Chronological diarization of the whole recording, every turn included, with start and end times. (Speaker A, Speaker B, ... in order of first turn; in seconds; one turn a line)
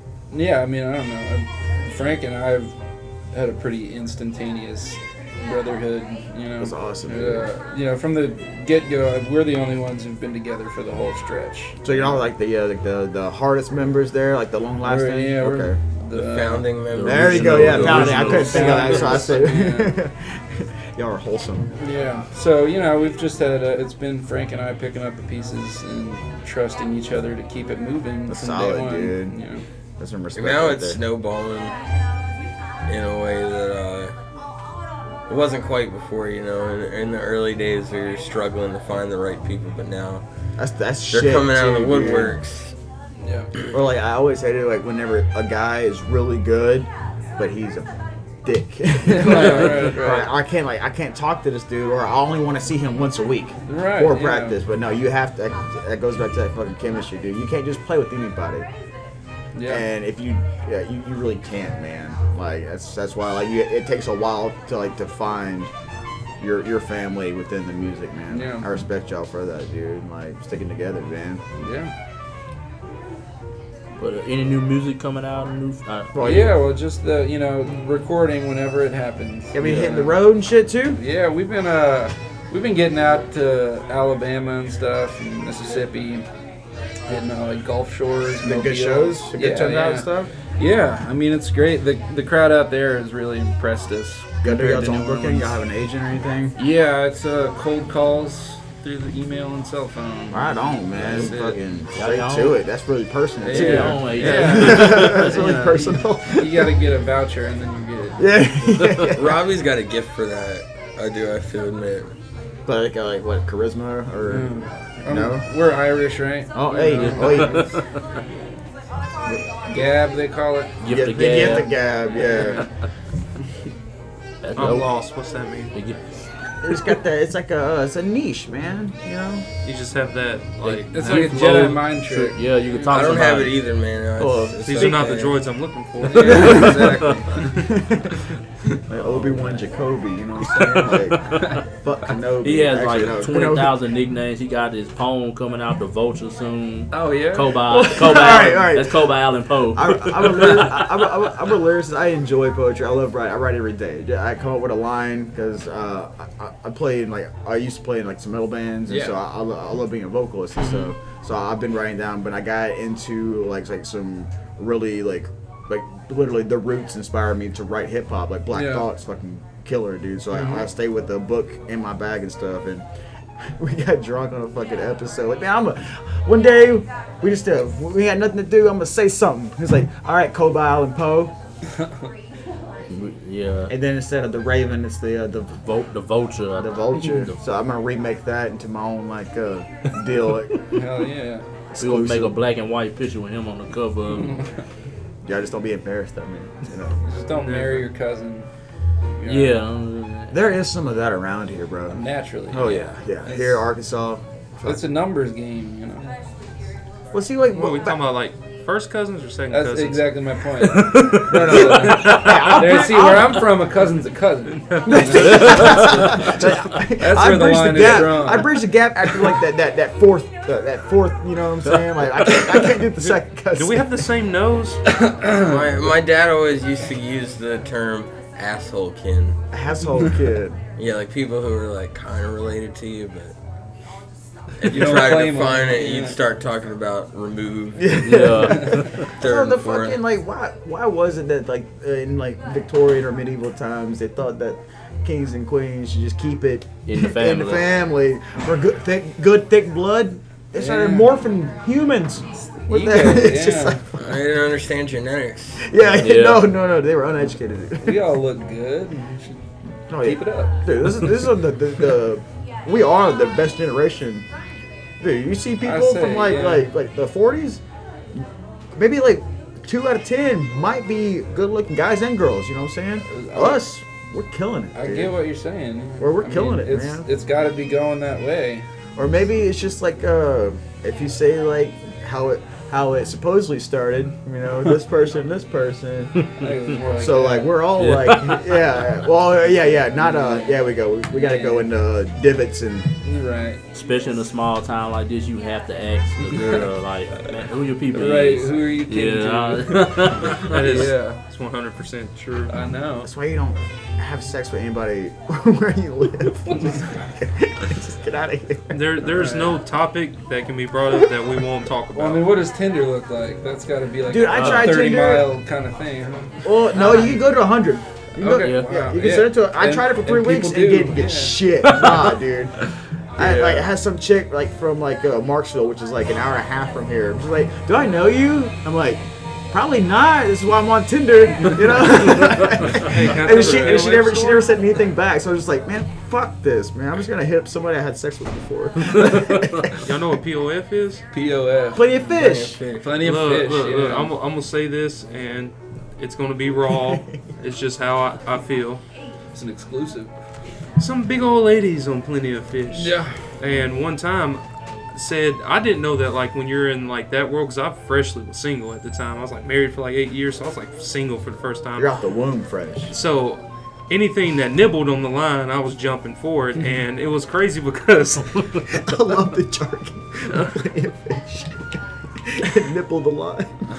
Speaker A: 0.3-2.7
Speaker A: 3.3-12.2
Speaker B: 6.6-7.5
Speaker B: 11.8-15.8
Speaker A: 14.8-16.7
Speaker C: 16.1-18.1
Speaker D: 16.9-19.2
Speaker B: 17.0-21.7
Speaker A: 17.6-19.9
Speaker A: 21.8-29.6
Speaker B: 28.3-29.4
Speaker B: 30.0-31.0
Speaker C: 30.4-31.7
Speaker C: 32.9-34.1
Speaker C: 35.3-40.2
Speaker B: 40.6-42.4
Speaker C: 41.1-42.7
Speaker A: 43.2-43.5
Speaker B: 43.7-47.9
Speaker B: 48.4-58.7
Speaker A: 49.0-50.3
Speaker A: 53.7-54.6
Speaker A: 59.5-59.8
Speaker B: 59.7-65.7
Speaker B: 66.4-71.4
Speaker A: 68.3-68.7
Speaker A: 71.5-71.9
Speaker D: 74.0-76.2
Speaker B: 76.1-76.6
Speaker A: 76.2-80.2
Speaker B: 79.5-81.0
Speaker A: 80.9-86.2
Speaker A: 87.1-95.6
Speaker B: 88.4-90.3
Speaker B: 94.4-96.5
Speaker A: 96.6-101.6
Speaker B: 100.3-106.8
Speaker D: 101.0-101.3
Speaker D: 101.9-102.6
Speaker A: 103.4-108.3
Speaker D: 103.5-105.4
Speaker B: 108.2-109.4
Speaker C: 109.0-112.1
Speaker B: 112.7-114.5
Speaker A: 114.2-117.7
Speaker B: 115.1-115.4
Speaker B: 116.5-117.7
Speaker D: 117.0-117.9
Speaker A: 119.7-120.8
Speaker D: 120.8-121.7
Speaker B: 120.8-122.7
Speaker A: 122.1-122.7
Speaker D: 124.4-124.9
Speaker E: 124.5-125.7
Speaker D: 125.7-126.2
Speaker B: 126.6-129.4
Speaker E: 129.6-131.8
Speaker D: 130.6-133.6
Speaker A: 130.9-132.8
Speaker C: 132.9-135.4
Speaker B: 134.2-134.9
Speaker E: 134.6-136.9
Speaker A: 136.0-137.6
Speaker D: 136.3-137.2
Speaker B: 137.7-138.2
Speaker B: 138.9-143.8
Speaker D: 141.3-141.6
Speaker D: 142.4-151.1
Speaker A: 146.9-147.8
Speaker B: 147.6-149.0
Speaker B: 149.7-172.8
Speaker A: 158.9-159.2
Speaker A: 160.6-160.9
Speaker A: 168.5-168.9
Speaker A: 170.3-170.7
Speaker B: 173.4-181.3
Speaker D: 182.9-183.7
Speaker B: 183.7-185.6
Speaker D: 185.6-187.3
Speaker B: 186.6-190.6
Speaker A: 190.7-191.4
Speaker B: 191.7-192.4
Speaker D: 191.8-194.4
Speaker A: 194.2-194.5
Speaker B: 195.2-197.0
Speaker A: 197.1-198.5
Speaker E: 197.4-197.8
Speaker A: 199.2-199.6
Speaker D: 199.2-200.3
Speaker B: 200.3-202.0
Speaker A: 201.9-203.7
Speaker B: 202.5-204.8
Speaker A: 204.6-206.1
Speaker B: 207.1-208.0
Speaker E: 207.5-210.1
Speaker A: 209.5-218.6
Speaker D: 210.7-211.3
Speaker B: 211.1-213.4
Speaker D: 212.0-212.4
Speaker E: 214.7-215.1
Speaker B: 214.8-223.9
Speaker D: 215.4-216.2
Speaker E: 223.5-224.8
Speaker A: 224.9-225.6
Speaker C: 225.3-229.4
Speaker B: 229.5-230.6
Speaker C: 230.8-233.3
Speaker C: 234.6-238.1
Speaker A: 234.6-236.2
Speaker B: 237.7-253.8
Speaker D: 238.0-239.1
Speaker C: 239.0-240.0
Speaker D: 246.8-247.7
Speaker A: 250.5-251.1
Speaker A: 252.6-253.8
Speaker C: 253.9-255.8
Speaker B: 255.6-258.0
Speaker D: 255.9-256.5
Speaker A: 257.8-259.4
Speaker B: 259.9-264.2
Speaker A: 260.0-260.6
Speaker B: 265.0-267.6
Speaker A: 265.6-266.6
Speaker B: 268.1-275.1
Speaker A: 273.1-273.6
Speaker A: 274.7-278.6
Speaker B: 276.0-277.1
Speaker B: 278.9-286.3
Speaker A: 286.3-287.7
Speaker B: 286.9-292.9
Speaker D: 287.8-288.6
Speaker A: 289.9-291.7
Speaker A: 293.0-293.6
Speaker D: 293.7-300.9
Speaker A: 296.3-296.6
Speaker A: 297.9-301.2
Speaker E: 300.2-302.5
Speaker A: 302.5-303.1
Speaker B: 303.0-309.3
Speaker E: 308.7-312.3
Speaker A: 309.1-309.6
Speaker A: 311.9-317.3
Speaker B: 314.1-315.3
Speaker D: 314.3-314.8
Speaker B: 316.4-322.6
Speaker A: 318.2-322.0
Speaker D: 318.4-318.7
Speaker B: 323.1-340.0
Speaker A: 323.2-323.7
Speaker E: 332.6-334.4
Speaker A: 333.1-334.3
Speaker D: 338.8-339.7
Speaker E: 339.8-341.0
Speaker A: 341.1-341.9
Speaker B: 341.7-342.6
Speaker C: 342.1-342.9
Speaker A: 342.8-344.1
Speaker E: 343.0-348.8
Speaker B: 346.7-347.2
Speaker A: 349.3-350.1
Speaker E: 350.8-354.4
Speaker A: 352.7-353.2
Speaker E: 354.9-361.9
Speaker B: 361.8-362.9
Speaker E: 362.9-369.0
Speaker B: 368.7-373.5
Speaker E: 370.3-370.6